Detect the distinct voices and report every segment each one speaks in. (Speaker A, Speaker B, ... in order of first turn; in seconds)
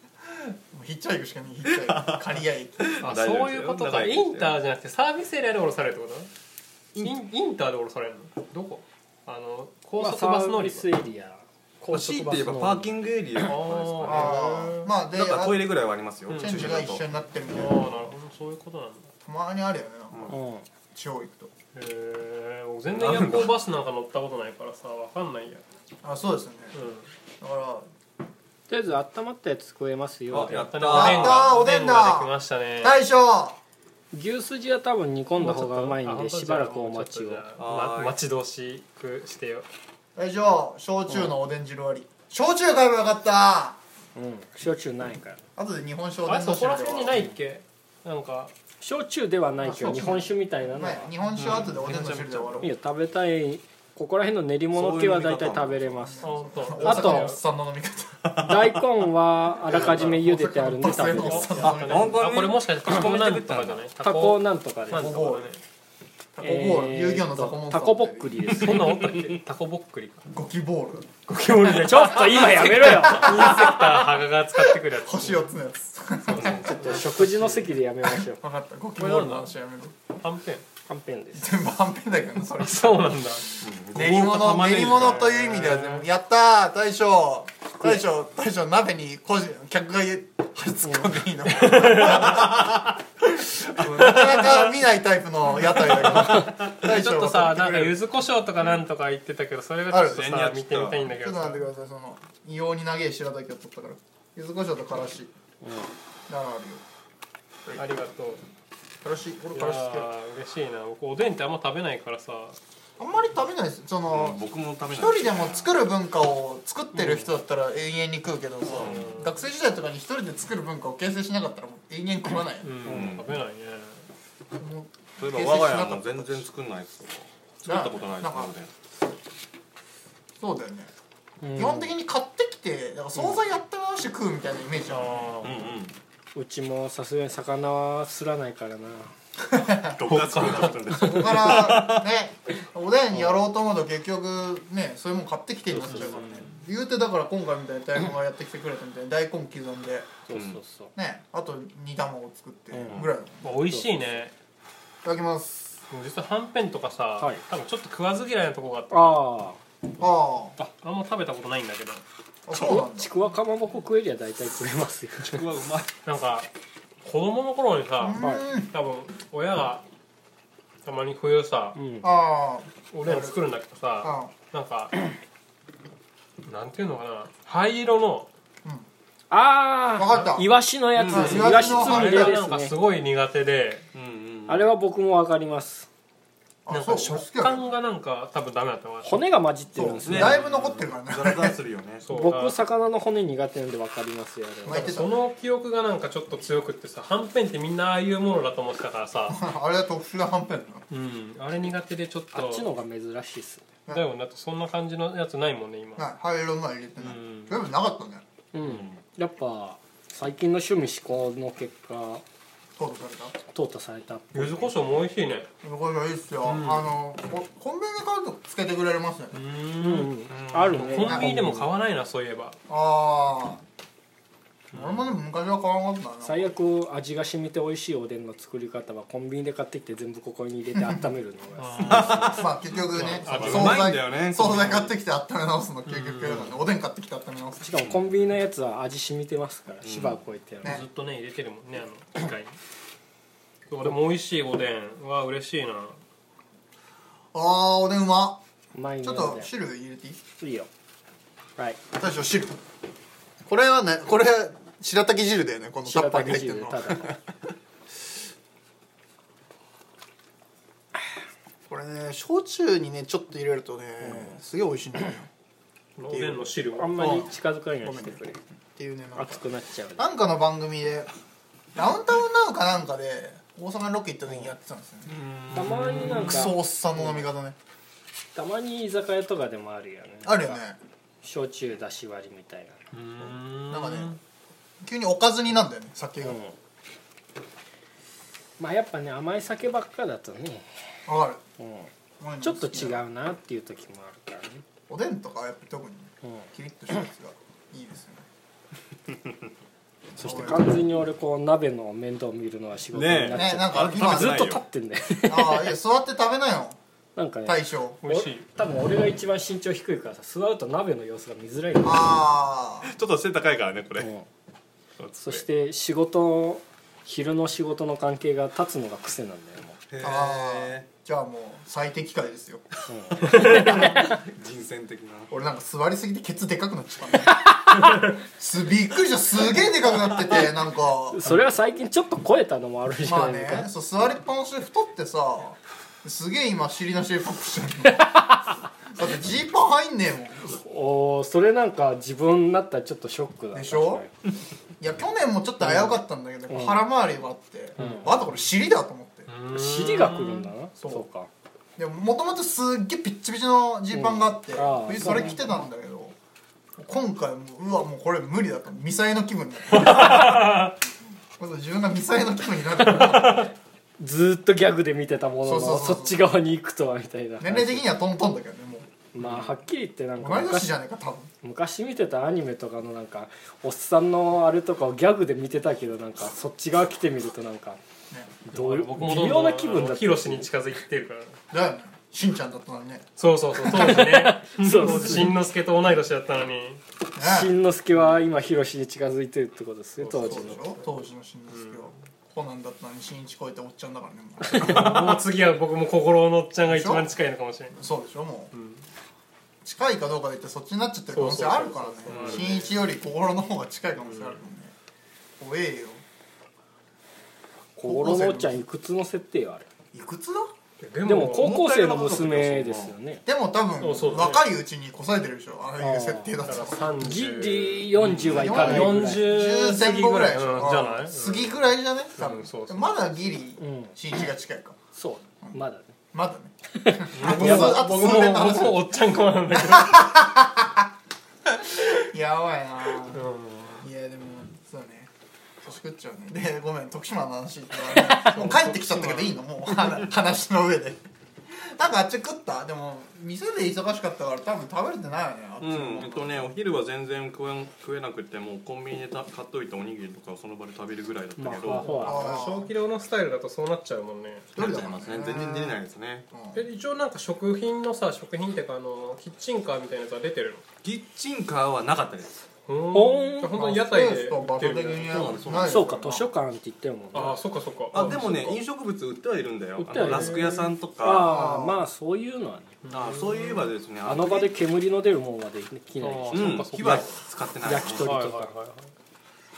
Speaker A: 0.2-3.0, 14.0-15.7, 16.4-17.9, 19.2-20.4, 20.9-21.5, 26.0-26.8, 27.4-27.9, 30.9-33.6, 40.1-43.8, 45.5-47.3, 49.6-52.7, 56.0-58.2, 59.7-62.2, 64.9-65.5, 66.3-68.6, 70.3-77.0, 78.0-80.0, 81.3-83.2, 83.9-98.0, 99.9-100.2, 101.1-105.3, 106.3-106.8, 109.0-110.1, 113.0-123.0, 124.5-126.5, 127.6-128.5, 130.4-130.9, 131.5-135.4, 139.5-140.0, 140.9-150.1, 150.9-153.6, 155.0-155.8, 160.0-160.6, 162.4-163.1, 168.0-168.7, 172.0-173.4, 174.0-174.3, 179.9-182.4, 186.7-187.7, 189.7-191.6, 194.6-195.2, 199.3-200.8, 206.0-208.2, 212.8-213.3, 215.6-219.4, 220.9-221.3, 222.7-223.6, 224.7-226.5, 230.7-231.1, 232.1-237.8, 247.3-248.4, 249.0-250.2, 251.9-252.6, 253.4-257.2, 261.7-265.3, 266.1-267.3, 267.8-268.2, 268.8-269.4, 270.0-271.1, 271.7-275.2, 276.0-277.6, 280.2-280.8, 283.7-284.2, 284.8-286.4, 291.1-291.4, 292.2-293.0, 294.9-298.2, 300.2-300.8, 303.3-304.6, 305.2-306.8, 307.4-308.0, 311.8-312.9, 320.0-322.6, 325.3-327.5, 328.2-331.2, 333.0-338.2, 338.9-340.6, 343.5-344.1, 344.8-349.3, 350.8-351.0, 351.8-356.1, 356.8-360.7, 361.4-363.5, 365.4-366.2, 367.4-368.9, 370.2-371.3, 378.1-378.4, 381.5-383.1, 383.6-383.9, 387.1-387.6, 390.1-395.1, 396.6-397.1, 397.7-398.5, 399.6-404.7, 405.4-406.0, 407.8-408.6, 409.9-410.5, 413.2-416.9, 418.2-424.8, 426.1-428.9, 429.6-430.8, 431.7-433.2, 433.8-435.1, 435.6-446.5, 452.0-452.7, 454.5-455.8, 456.3-456.7, 463.5-466.3, 471.1-471.8
Speaker B: 1.6-4.6, 11.9-14.5, 15.1-17.0, 22.9-23.6, 30.3-31.6, 37.6-38.2, 51.4-52.7, 54.7-56.2, 58.2-58.8, 61.6-63.9, 76.3-76.9, 83.6-85.4, 92.2-92.9, 96.3-96.7, 99.9-101.1, 114.1-115.7, 118.7-119.2, 122.8-123.3, 125.2-128.7, 135.4-135.9, 139.9-142.1, 150.3-150.6, 165.2-165.9, 180.9-181.9, 183.9-184.7, 190.0-192.1, 208.6-208.9, 220.3-221.2, 231.8-232.5, 233.2-234.9, 239.8-240.2, 275.1-276.3, 302.9-304.6, 312.8-314.1, 315.0-315.4, 319.9-320.9, 323.2-325.3, 394.6-395.0, 402.1-402.5, 411.1-412.9, 418.0-418.4, 445.6-452.0, 454.6-456.3, 460.8-462.3, 465.1-465.9, 467.9-471.3, 472.9-474.6, 476.3-478.2
Speaker C: 3.0-6.3, 7.0-10.9, 13.4-14.9, 16.3-19.1, 21.7-25.6, 26.7-27.1, 30.3-33.0, 35.4-39.7, 46.2-48.5, 56.2-57.4, 59.7-60.2, 61.0-65.6, 68.5-70.2, 71.3-75.6, 76.3-77.7, 79.0-79.5, 80.2-80.6, 82.6-83.6, 84.6-86.1, 91.5-92.6, 93.9-94.6, 96.0-101.6, 107.8-108.4, 109.5-112.6, 116.9-117.3, 118.7-119.4, 122.6-124.0, 134.9-135.7, 140.1-141.3, 145.7-146.5, 153.4-154.3, 155.9-159.2, 160.6-162.0, 166.0-166.5, 167.0-169.8, 170.8-171.8, 172.9-174.9, 176.4-178.3, 181.3-183.9, 186.7-189.3, 190.1-190.8, 192.0-192.6, 194.7-199.4, 200.9-202.7, 203.9-206.0, 207.0-207.6, 214.3-215.5, 216.4-216.8, 219.3-222.6, 224.7-225.1, 231.6-233.9, 235.9-236.5, 240.6-242.6, 243.7-246.0, 266.0-267.2, 275.5-276.5, 282.9-284.2, 308.0-308.4, 349.3-350.5, 359.7-360.7, 378.5-381.4, 383.2-386.8, 390.0-390.8, 391.5-391.9, 394.5-397.8, 398.5-398.8, 401.1-402.8, 404.1-404.4, 410.8-411.6, 413.8-414.5, 416.4-421.6, 422.2-423.0, 427.1-430.1, 433.1-433.9, 438.2-439.4, 451.7-454.5, 456.5-460.6, 462.7-465.4, 467.1-468.6, 469.9-470.7, 472.8-473.6, 476.0-477.1, 478.0-478.9
Speaker D: 10.0-12.9, 20.3-20.6, 28.7-30.8, 34.1-37.4, 44.1-45.4, 48.8-51.1, 52.6-57.4, 58.4-61.7, 64.0-65.2, 66.4-69.0, 71.7-73.6, 76.6-78.4, 80.8-81.6, 105.6-105.9, 131.4-131.9, 136.3-139.1, 150.3-150.9, 152.7-153.0, 153.6-153.9, 158.9-159.6, 162.5-165.5, 168.2-168.4, 171.7-172.1, 179.3-182.8, 184.5-185.9, 189.0-190.4, 192.1-195.0, 202.3-203.6, 208.5-212.2, 213.5-214.7, 219.8-221.7, 226.2-232.4, 237.6-240.8, 248.7-249.5, 250.4-250.7, 255.8-257.1, 266.8-268.4, 269.1-270.1, 275.5-277.2, 278.3-280.6, 281.2-282.8, 286.2-286.5, 288.6-290.7, 291.6-291.9, 292.4-294.6, 300.2-305.7, 307.1-312.2, 314.0-314.3, 315.2-319.8, 322.9-324.2, 331.1-333.7, 338.1-338.3, 340.5-344.1, 345.6-346.0, 346.5-346.8, 347.8-348.1, 349.5-351.3, 353.9-355.5, 364.0-367.9, 369.1-370.7, 371.4-377.8, 378.5-380.5, 383.6-385.4, 387.1-390.7, 407.8-409.6, 411.0-413.2, 415.8-416.4, 417.0-419.3, 423.6-423.9, 424.9-425.9, 426.7-428.0, 451.4-452.4, 462.9-463.7, 465.6-467.4, 469.8-472.7, 474.0-477.0, 477.6-478.5